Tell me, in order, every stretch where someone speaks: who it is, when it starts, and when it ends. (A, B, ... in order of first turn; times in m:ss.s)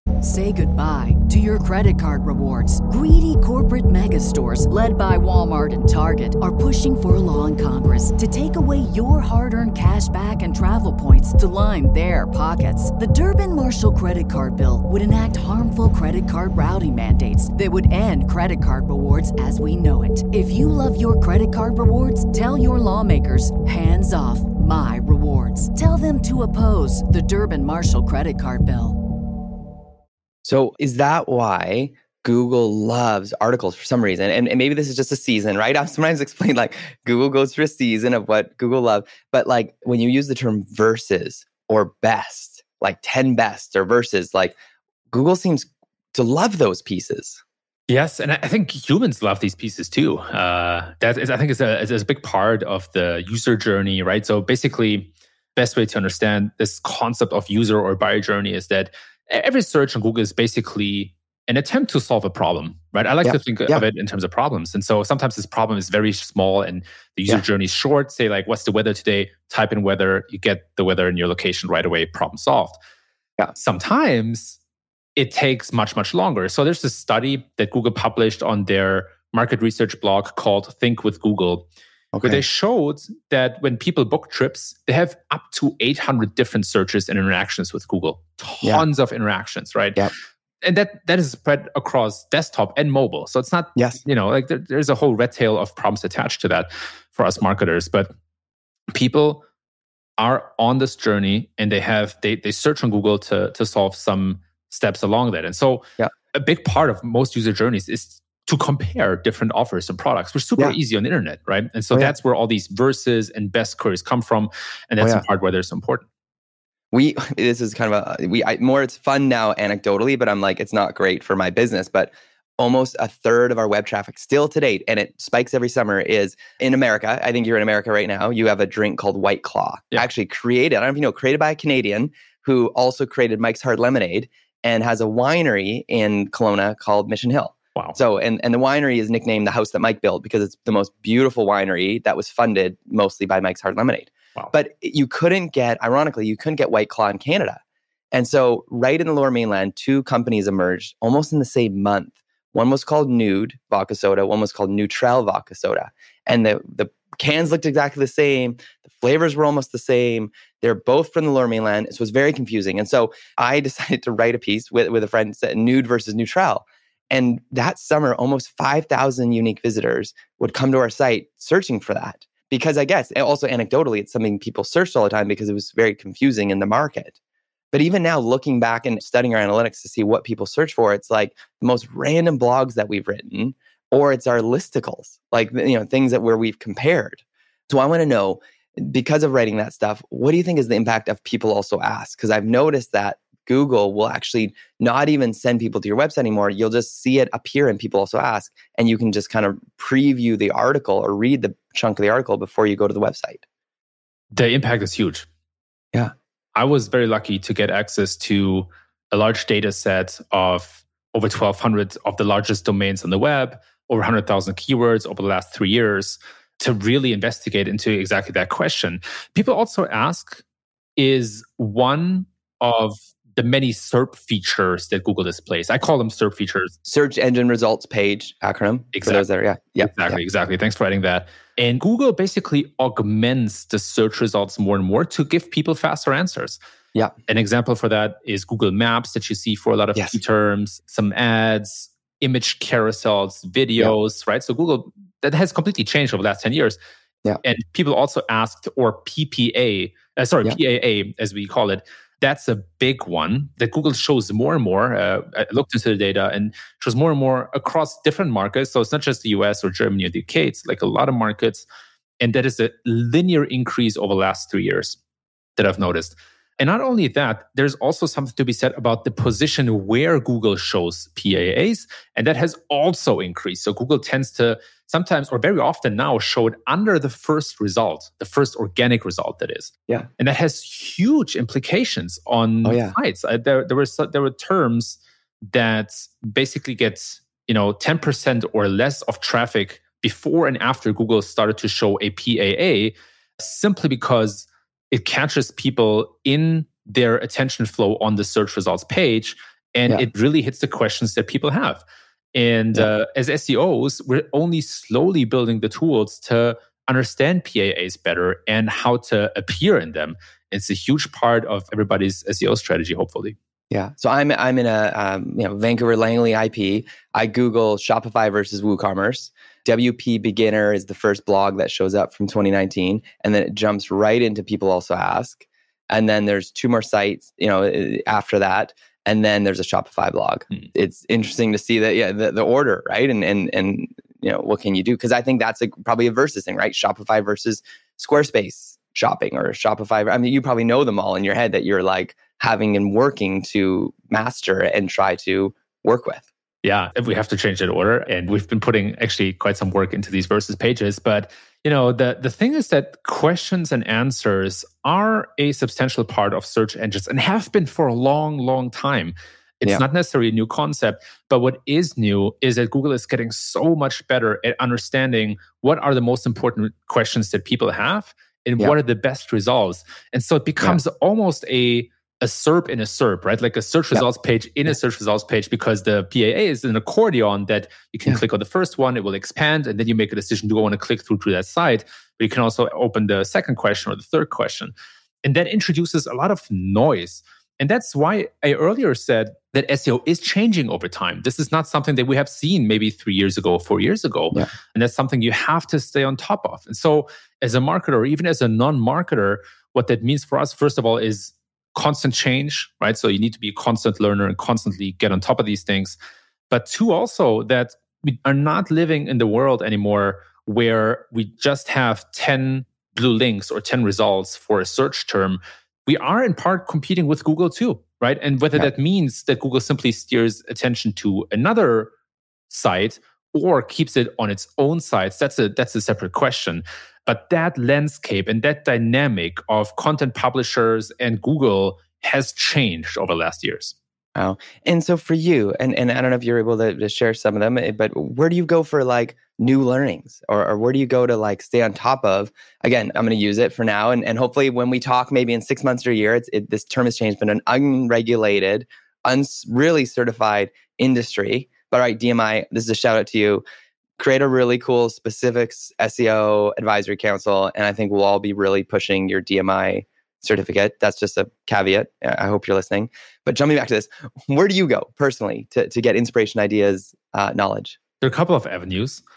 0:00.2-0:29.0 A
0:30.4-0:44.6 B
0:45.1-0:47.4 B
0:47.9-1:12.8 C
1:03.2-1:03.8 B
1:13.5-1:14.6 C
1:15.2-1:21.7 C
1:22.1-1:22.4 B
1:22.2-1:30.1 C
1:30.6-1:38.1 C
1:38.9-1:39.4 C
1:40.2-1:56.0 C
1:56.9-2:27.6 B
2:28.1-2:57.2 B
2:57.7-3:23.4 B
3:24.3-3:25.3 C
3:26.5-3:40.4 C
3:41.0-3:46.7 C
3:46.8-3:50.2 B
3:48.9-3:49.2 C
3:49.8-3:56.6 C
3:57.3-4:06.8 C
4:07.4-4:21.7 C
4:22.2-4:25.0 C
4:25.6-5:01.8 C
4:42.6-4:42.9 B
5:02.3-5:13.4 C
5:13.7-5:46.3 B
5:46.6-6:46.0 C
6:46.5-7:01.9 C
7:02.5-7:13.7 C
7:14.1-7:33.4 B
7:34.0-7:47.8 B
7:48.0-7:49.0 C